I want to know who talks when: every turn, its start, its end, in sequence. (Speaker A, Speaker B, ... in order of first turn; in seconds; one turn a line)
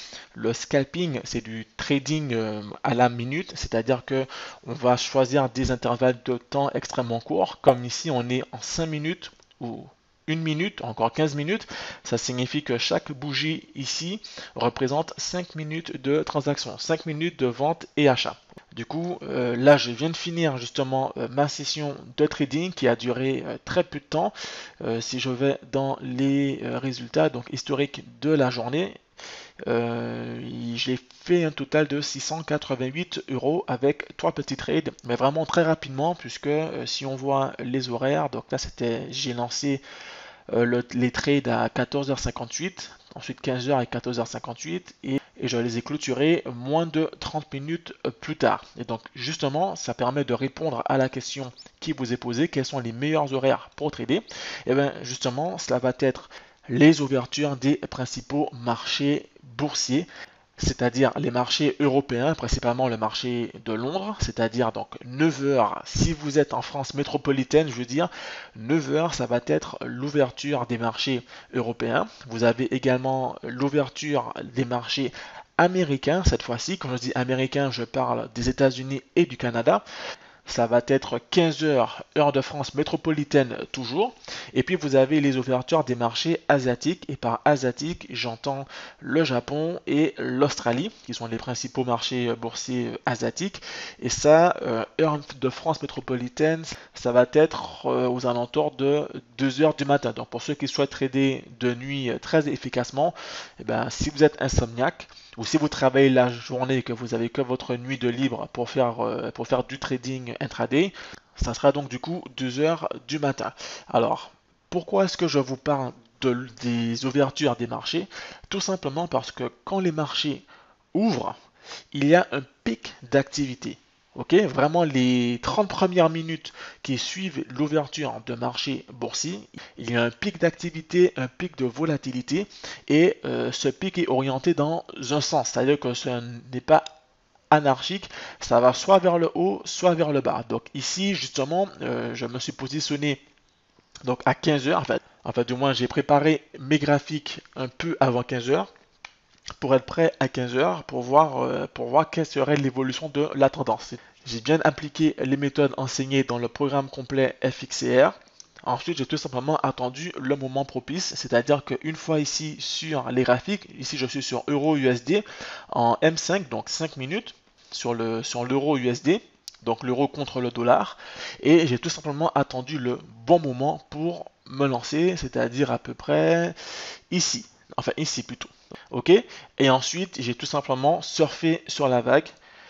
Speaker A: 0.3-28.9
Speaker A: 29.6-39.8
Speaker A: 40.5-79.8
Speaker A: 80.5-121.4
Speaker A: 121.9-136.8
Speaker A: 137.5-143.2
Speaker A: 144.0-148.7
Speaker A: 149.6-176.5
Speaker A: 177.1-182.3